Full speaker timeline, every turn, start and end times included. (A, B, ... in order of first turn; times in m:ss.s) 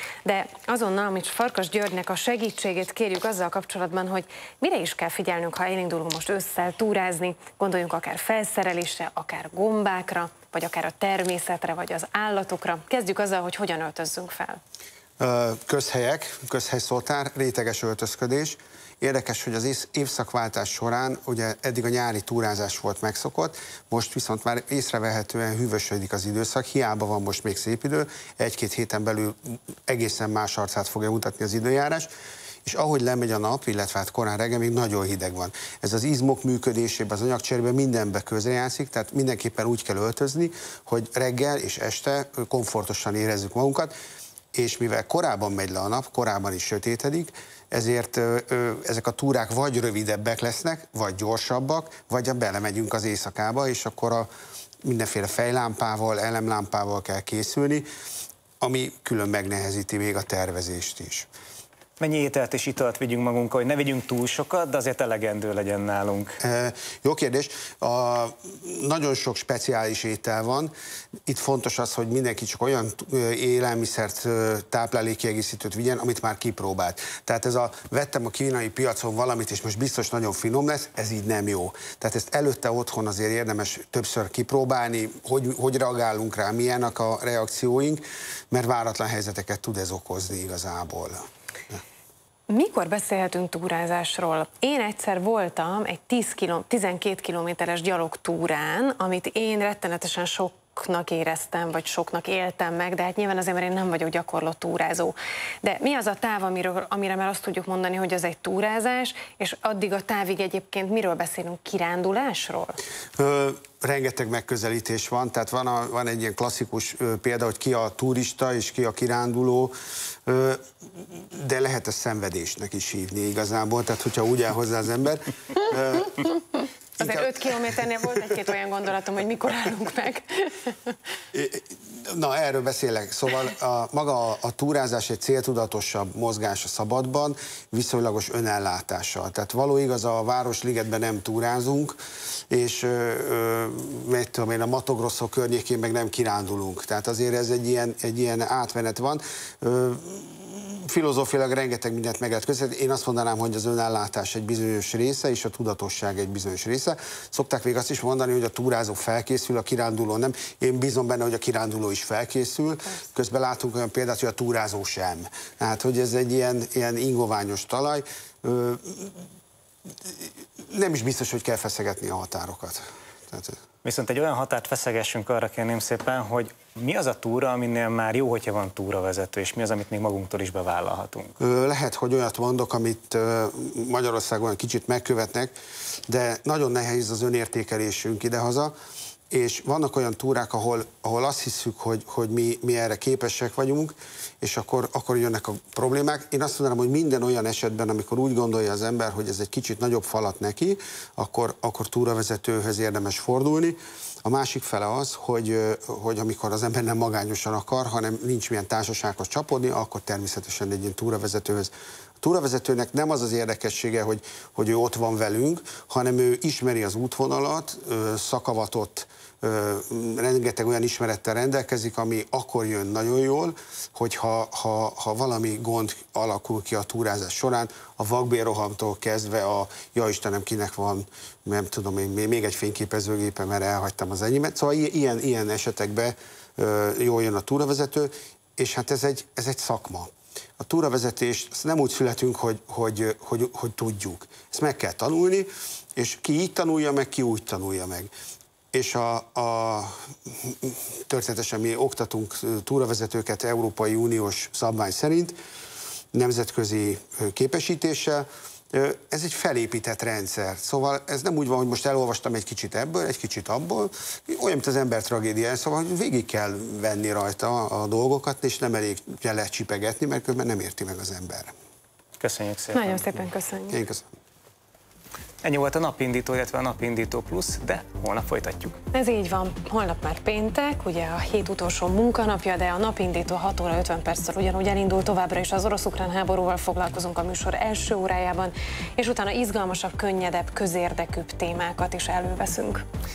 0:00.2-0:14.6 A
0:15.2-0:32.1 B
0:32.6-0:43.9 B
0:44.5-0:54.3 B
0:54.8-0:57.9 B
0:58.6-1:01.3 B
1:02.0-1:06.4 C
1:06.4-1:10.7 B
1:11.3-1:31.8 B
1:32.5-1:52.8 A
1:53.2-1:59.7 B
2:00.3-2:06.4 B
2:07.0-2:08.2 B
2:07.0-2:11.0 A
2:11.3-2:22.0 B
2:22.5-2:49.2 B
2:50.7-2:53.6 B
2:53.8-3:01.3 C
3:01.4-3:05.5 B
3:06.1-3:08.8 B
3:09.3-4:08.1 B
4:08.7-4:15.4 B
4:16.1-4:31.5 B
4:32.2-4:33.1 C
4:32.7-4:33.8 A
4:33.7-4:34.1 B
4:35.4-4:38.8 C
4:38.9-4:52.8 A